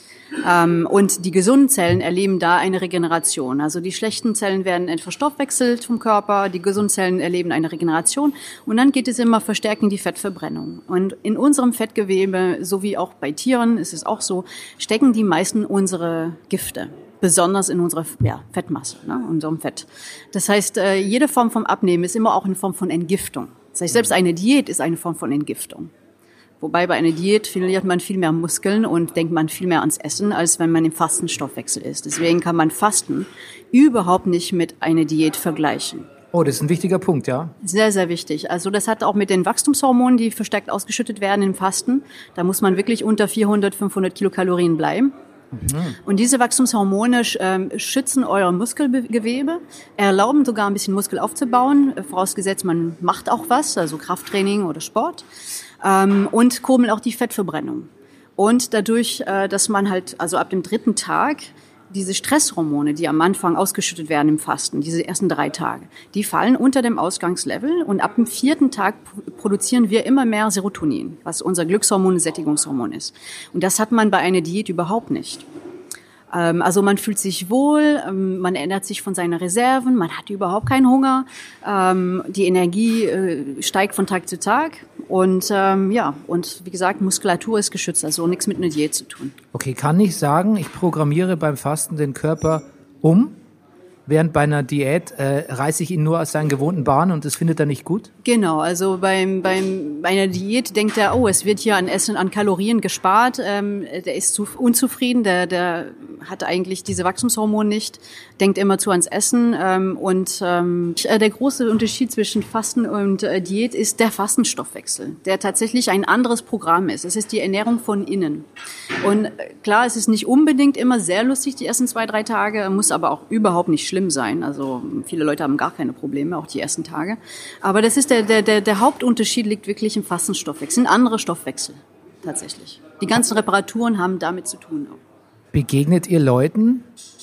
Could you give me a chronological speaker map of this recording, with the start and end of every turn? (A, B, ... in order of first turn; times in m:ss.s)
0:00.4-0:25.9 A
0:26.6-0:36.1 A
0:36.3-0:37.5 B
0:37.6-0:45.1 A
0:45.5-0:46.0 B
0:46.0-0:55.2 A
0:55.8-1:15.5 A
1:16.3-1:29.3 A
1:29.5-1:33.4 B
1:34.1-1:38.1 B
1:38.2-1:58.5 A
1:59.0-2:15.0 A
2:15.5-2:16.8 B